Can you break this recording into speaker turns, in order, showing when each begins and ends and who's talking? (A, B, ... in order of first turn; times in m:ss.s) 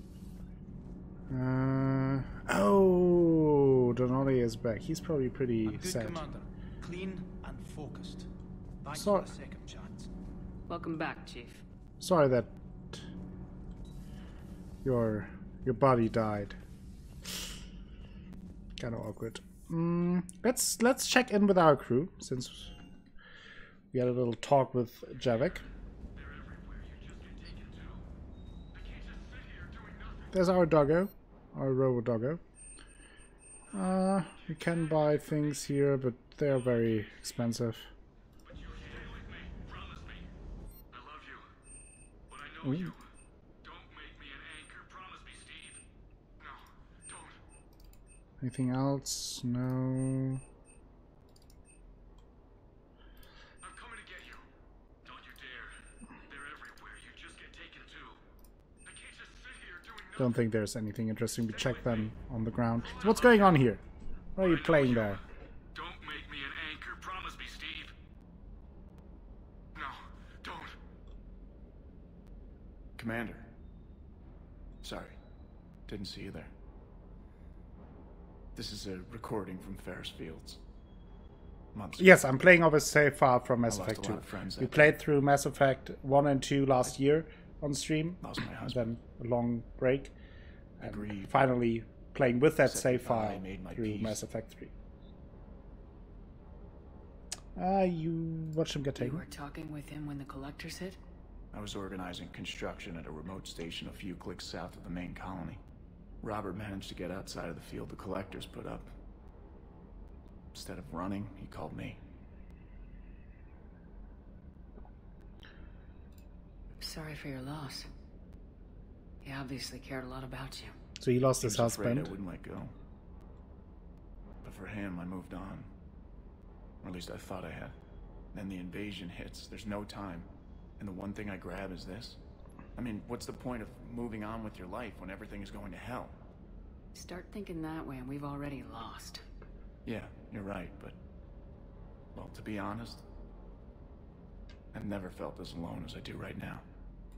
0:01.3-0:06.2 A
0:05.6-0:08.3 B
0:08.8-0:10.1 B
0:08.9-0:09.3 A
0:10.7-0:11.6 C
0:12.0-0:13.0 A
0:14.8-0:16.6 A
0:18.8-0:22.7 A
0:23.9-0:25.6 A
0:26.1-0:28.0 D
0:28.7-0:30.3 D
0:30.3-0:32.4 A
0:33.7-0:35.6 D
0:33.7-0:37.9 A
0:36.5-0:37.2 D
0:38.4-0:40.2 D
0:40.9-0:41.5 D
0:42.3-0:43.0 D
0:42.6-0:42.9 A
0:43.6-0:45.8 D
0:46.4-0:47.4 D
0:48.4-0:50.4 A
0:53.6-0:54.4 D
0:55.0-0:55.8 D
0:56.3-0:58.2 D
0:58.8-1:00.4 D
1:00.2-1:03.8 A
1:01.5-1:02.1 D
1:02.8-1:03.7 D
1:04.4-1:05.2 A
1:04.4-1:05.2 D
1:05.7-1:07.9 D
1:09.8-1:10.7 D
1:13.0-1:13.4 E
1:14.8-1:15.2 E
1:15.9-1:16.5 E
1:18.5-1:20.6 E
1:21.7-1:22.1 E
1:22.0-1:30.1 A
1:23.7-1:24.9 E
1:28.2-1:28.9 E
1:30.8-1:31.3 E
1:30.8-1:34.7 A
1:32.6-1:34.2 E
1:37.6-1:39.2 A
1:39.0-1:41.0 C
1:41.5-1:45.6 E
1:46.2-1:48.9 E
1:50.5-1:52.0 E
1:56.8-1:57.9 C
1:59.2-2:00.7 C
2:01.0-2:02.1 A
2:01.4-2:02.7 E
2:04.4-2:05.7 E
2:06.8-2:07.7 E
2:08.3-2:10.3 E
2:10.8-2:12.2 E
2:12.8-2:16.2 E
2:16.9-2:19.2 C
2:19.8-2:21.0 E
2:22.1-2:23.0 E
2:24.7-2:26.6 E